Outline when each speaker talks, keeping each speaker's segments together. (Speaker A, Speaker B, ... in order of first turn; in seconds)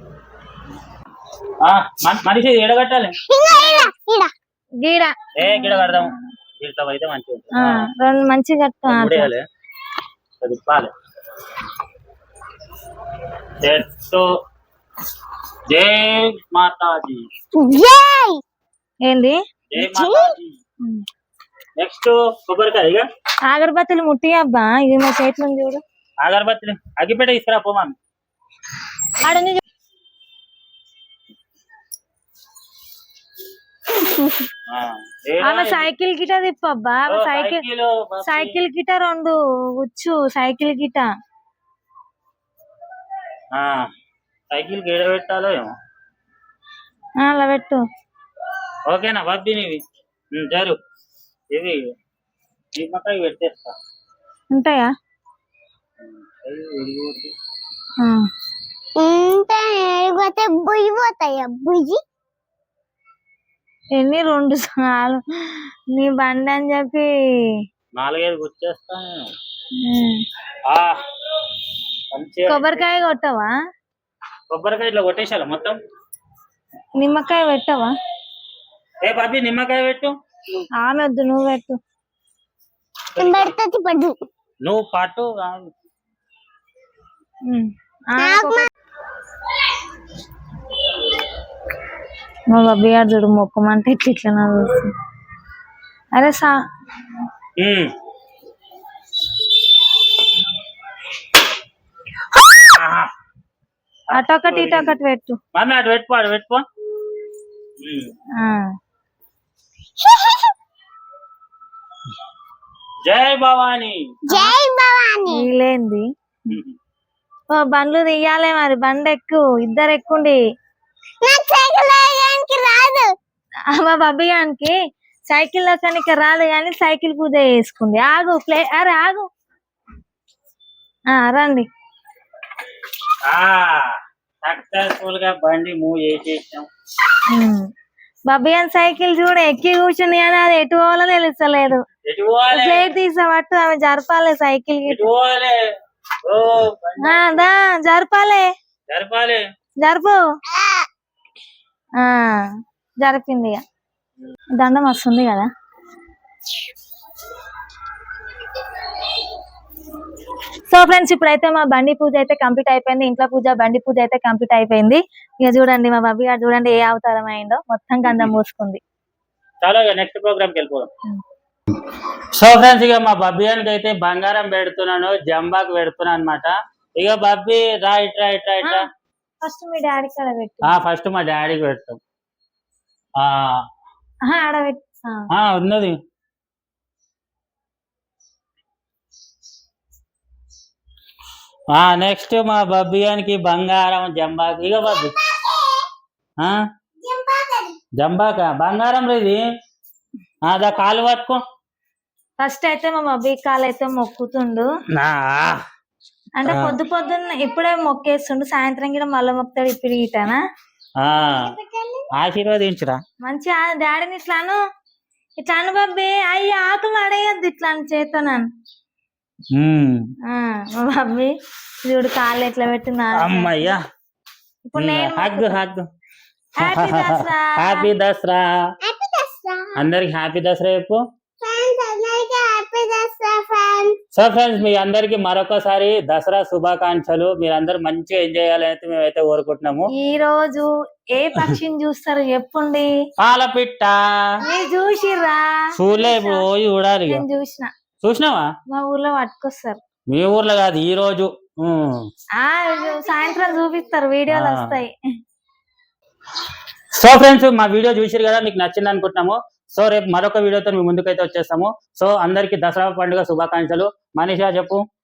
Speaker A: 1.6-3.1, 5.4-7.9, 8.9-9.4, 10.4-10.9, 13.6-14.2, 15.7-17.2, 19.7-20.6, 21.8-23.1, 26.2-27.9, 34.7-35.9, 37.1-38.6, 43.5-43.9, 44.5-45.7, 48.9-49.8, 50.3-50.8, 51.5-51.8, 52.7-53.7, 56.0-57.3, 68.0-69.3, 70.6-71.0, 72.1-72.8, 74.5-75.8, 79.0-80.1, 83.2-83.5, 84.6-85.7, 97.6-97.9, 102.5-103.1, 104.2-105.0, 105.5-106.6, 107.8-108.1, 113.0-114.0, 116.5-116.8, 133.2-136.7, 142.1-142.9, 144.9-145.6, 146.2-147.4, 148.9-149.4, 168.1-168.3, 169.6-170.9, 172.3-178.8, 180.6-182.0, 183.2-183.6, 185.3-185.9, 191.7-195.1, 198.0-199.4, 200.4-201.4, 204.9-205.6, 206.4-206.8, 211.0-211.5, 212.1-213.0, 219.5-220.1, 223.1-223.8, 224.8-225.8, 226.6-228.7, 229.8-231.0, 234.1-239.9, 243.2-244.3, 245.8-247.2, 248.0-248.5, 250.1-252.1, 254.3-254.7, 256.9-264.8
Speaker B: 3.3-4.3, 17.5-18.4, 19.8-20.4, 59.0-62.0, 83.2-84.2, 88.2-88.7, 110.0-110.5, 114.3-115.5, 121.2-123.1, 150.5-150.8, 194.8-195.8, 197.0-197.7, 211.4-212.1, 228.8-229.9, 231.4-233.9
Speaker C: 3.5-3.9, 4.8-6.2, 7.5-9.3, 19.0-19.4, 23.5-25.8, 29.2-29.6, 35.4-37.6, 38.2-41.1, 47.2-47.8, 54.5-54.9, 58.0-58.2, 63.9-67.1, 69.8-70.2, 72.5-73.5, 77.0-77.9, 80.8-81.8, 87.5-88.7, 92.5-94.9, 96.1-96.5, 104.1-105.4, 108.4-108.7, 115.3-116.6, 117.5-120.4, 123.7-124.7, 125.3-129.2, 131.1-131.7, 137.3-137.7, 138.3-141.8, 142.5-145.1, 147.0-148.5, 149.8-150.2, 152.0-152.5, 153.0-153.6, 154.6-155.5, 160.7-168.8, 179.4-180.7, 184.2-185.2, 202.4-204.7, 206.4-210.4, 213.2-214.6, 215.4-218.4, 220.2-221.3, 221.8-223.7, 224.7-225.6, 226.6-227.9, 239.9-242.9, 244.4-246.4, 247.1-247.7, 248.7-249.8, 252.4-254.9